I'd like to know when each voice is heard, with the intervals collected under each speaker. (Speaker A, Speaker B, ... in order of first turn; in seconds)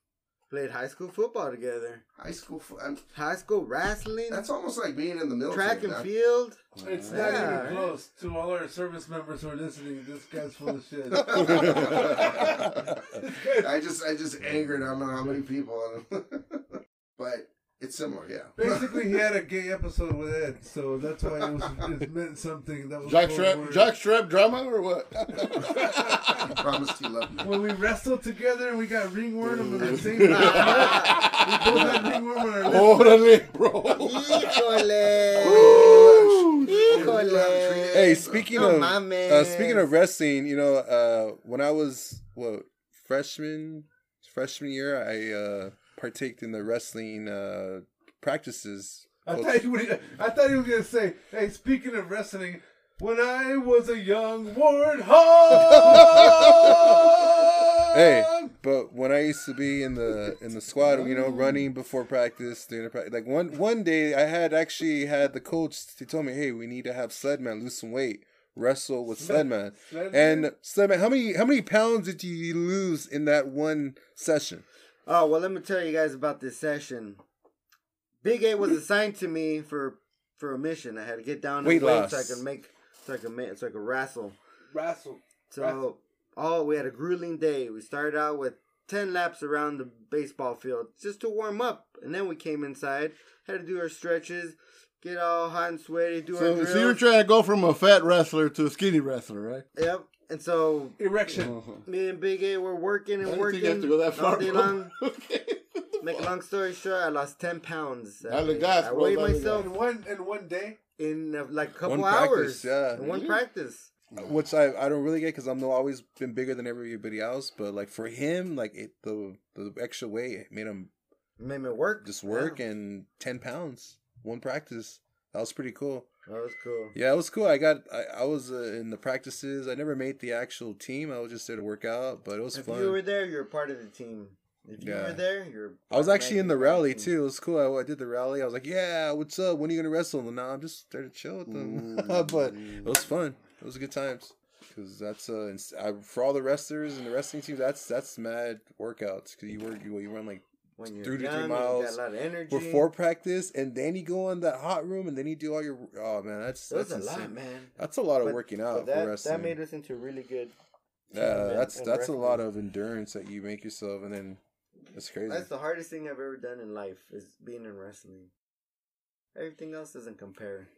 Speaker A: 0.5-2.0, 3.1-4.5, 5.5-7.9, 30.3-31.3, 34.0-36.1, 36.6-39.9, 75.0-77.2, 78.2-84.3, 85.5-97.0, 99.8-101.0, 101.8-104.9, 106.0-109.7, 111.0-113.9, 121.4-122.6, 126.2-127.0, 132.5-137.1, 150.8-152.9, 156.7-160.5, 161.1-162.4, 165.3-168.3, 169.3-170.7
Speaker B: 2.2-3.0, 4.3-6.1, 11.1-19.2, 26.4-27.6, 35.3-38.6
Speaker C: 6.7-7.7, 11.4-12.1, 23.0-26.1, 29.4-37.0, 60.8-61.6, 96.3-99.6, 101.3-101.8, 103.2-106.3, 108.2-109.7, 113.0-113.4, 141.5-142.9
Speaker D: 6.8-13.7, 18.6-23.9, 25.6-26.4, 27.4-33.5, 49.2-58.5, 69.2-70.5, 84.7-85.8, 101.0-101.5, 109.5-110.8
Speaker E: 37.9-49.7, 55.5-57.0, 57.9-74.6, 81.6-82.4, 111.8-113.0, 114.2-120.9, 122.0-126.1, 126.9-133.0, 134.8-135.2, 135.9-150.4, 151.0-159.6, 161.1-164.4, 164.9-165.5